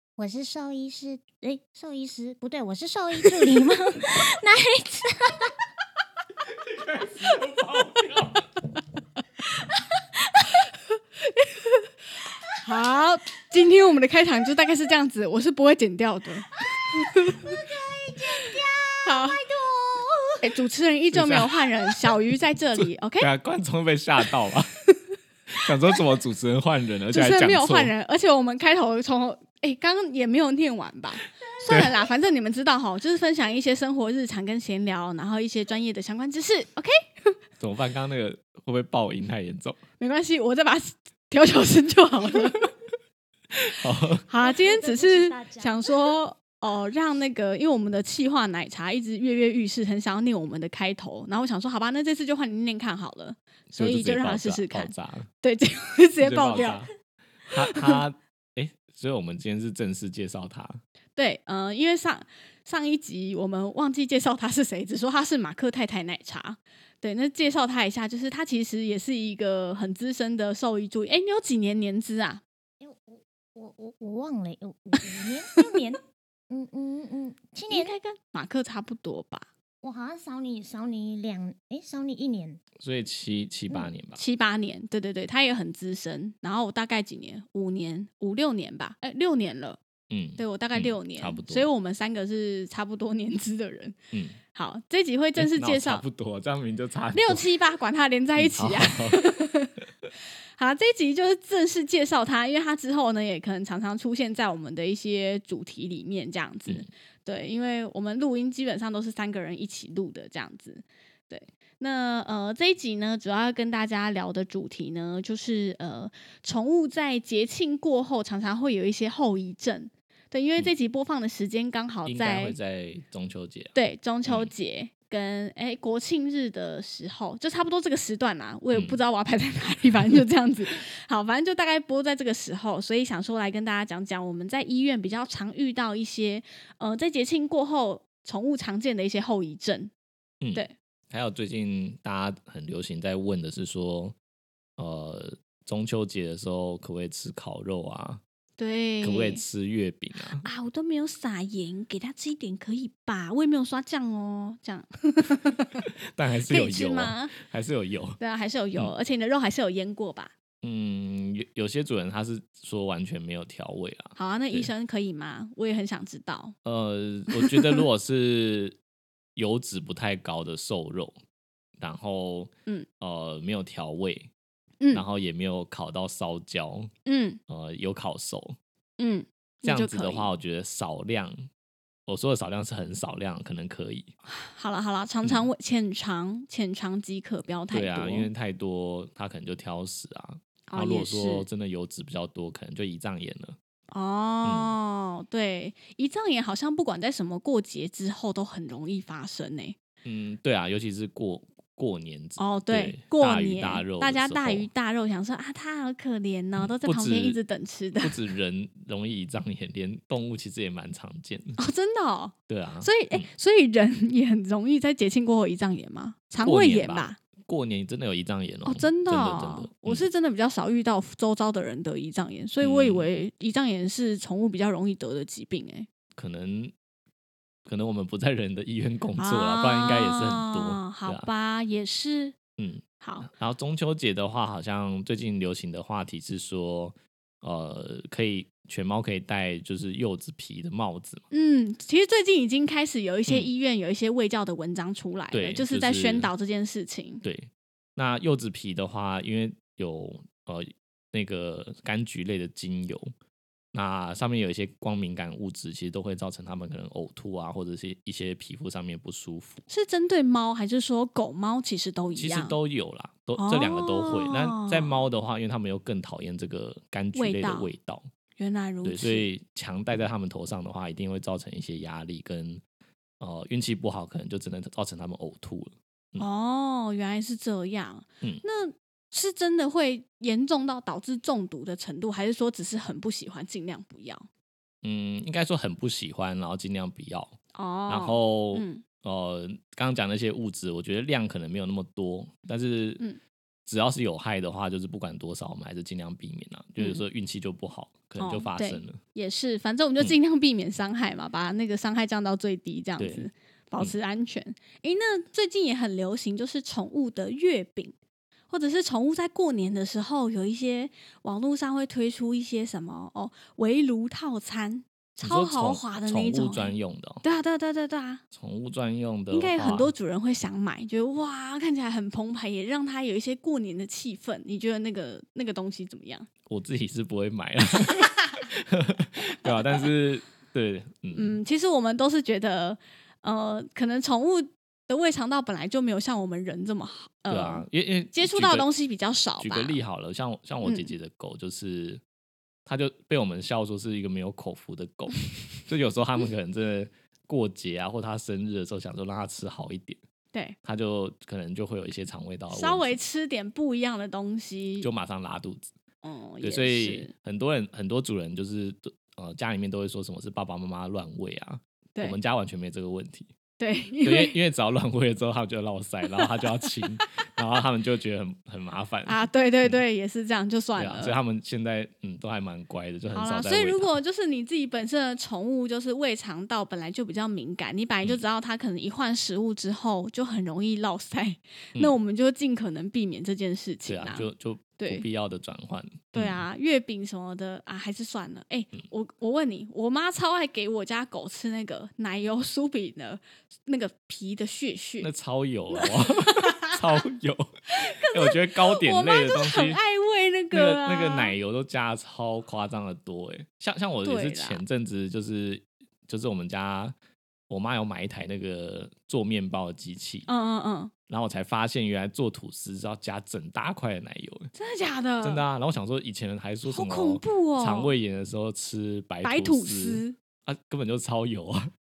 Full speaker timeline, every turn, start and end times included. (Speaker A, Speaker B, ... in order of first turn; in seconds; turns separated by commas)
Speaker A: 0.2-5.5, Speaker B: 6.7-8.5, Speaker C: 11.3-11.8, Speaker C: 12.6-17.5, Speaker A: 16.9-20.4, Speaker C: 19.0-19.4, Speaker C: 20.4-23.3, Speaker B: 21.1-21.5, Speaker B: 22.8-24.8, Speaker B: 25.5-27.9, Speaker C: 27.1-37.4, Speaker B: 37.6-39.8, Speaker C: 40.0-42.7, Speaker B: 43.6-44.2, Speaker C: 44.2-56.8, Speaker A: 44.4-45.9, Speaker B: 53.7-55.3, Speaker B: 56.2-56.9, Speaker B: 57.5-60.8, Speaker C: 57.7-57.9, Speaker C: 61.1-72.4, Speaker A: 72.8-77.9, Speaker C: 75.5-75.8, Speaker C: 77.7-79.5, Speaker A: 79.8-82.6, Speaker B: 82.8-84.2, Speaker C: 84.1-89.8, Speaker B: 90.1-91.7, Speaker C: 90.4-94.0, Speaker B: 94.1-94.4, Speaker C: 94.5-96.0, Speaker B: 95.4-97.5, Speaker C: 97.1-99.8, Speaker B: 98.4-99.3, Speaker C: 100.6-122.5, Speaker B: 122.0-123.8, Speaker C: 123.7-139.9, Speaker B: 128.7-129.0, Speaker B: 140.4-144.2, Speaker B: 144.8-148.2, Speaker C: 148.6-149.4, Speaker B: 149.0-150.4, Speaker C: 150.4-155.9, Speaker B: 156.1-158.2, Speaker C: 156.5-157.3, Speaker C: 158.2-160.3, Speaker B: 160.6-164.7, Speaker C: 164.2-166.5, Speaker B: 166.6-168.8, Speaker C: 167.3-167.8, Speaker B: 169.3-171.2, Speaker B: 171.8-174.3, Speaker B: 174.9-176.9, Speaker C: 177.1-177.4, Speaker B: 177.5-178.6, Speaker C: 179.0-180.3, Speaker B: 179.6-181.5, Speaker B: 182.1-184.1, Speaker C: 184.3-188.3, Speaker B: 187.7-193.6, Speaker C: 190.7-191.4, Speaker C: 193.9-199.8, Speaker B: 194.4-194.8, Speaker B: 200.0-204.7, Speaker C: 202.4-208.2, Speaker B: 206.6-207.4, Speaker B: 208.0-211.6, Speaker C: 211.6-217.2, Speaker B: 212.5-213.2, Speaker B: 216.4-220.1, Speaker C: 218.7-225.9, Speaker B: 222.6-223.1, Speaker B: 226.2-226.7, Speaker B: 227.7-231.3, Speaker C: 229.2-232.3, Speaker B: 232.6-241.2, Speaker C: 233.0-233.3, Speaker C: 241.3-247.2, Speaker B: 245.3-246.3, Speaker B: 247.2-253.1, Speaker B: 253.7-259.6, Speaker C: 259.7-262.6, Speaker B: 262.1-268.1, Speaker C: 263.4-265.0, Speaker C: 267.1-267.7, Speaker C: 268.4-269.3, Speaker B: 268.8-272.6, Speaker B: 273.2-276.2, Speaker C: 276.2-284.3, Speaker B: 284.8-287.4, Speaker C: 287.5-288.8, Speaker B: 287.9-293.0, Speaker B: 293.6-299.0, Speaker C: 298.2-307.9, Speaker B: 303.0-303.3, Speaker C: 308.5-318.2, Speaker B: 315.2-317.2, Speaker B: 318.3-319.9, Speaker C: 319.3-326.3, Speaker B: 326.4-331.4, Speaker C: 331.1-339.8, Speaker B: 337.3-338.6, Speaker B: 339.4-342.0, Speaker C: 340.6-340.9, Speaker B: 342.6-350.0, Speaker B: 350.6-353.0, Speaker C: 352.5-354.9, Speaker B: 354.8-355.7, Speaker C: 356.0-357.1, Speaker B: 356.4-363.3, Speaker C: 363.6-364.3, Speaker B: 364.0-369.8, Speaker C: 366.2-366.9, Speaker C: 369.1-371.2, Speaker B: 370.8-373.9, Speaker C: 373.1-385.1, Speaker B: 383.8-386.4, Speaker C: 386.1-395.1, Speaker B: 395.0-399.8, Speaker C: 395.7-396.8, Speaker C: 397.7-401.4, Speaker B: 400.5-406.9, Speaker C: 404.0-404.6, Speaker B: 407.5-410.3, Speaker C: 410.3-410.9, Speaker B: 411.1-414.5, Speaker C: 414.5-415.4, Speaker B: 415.2-421.7, Speaker C: 416.7-417.9, Speaker C: 419.2-420.1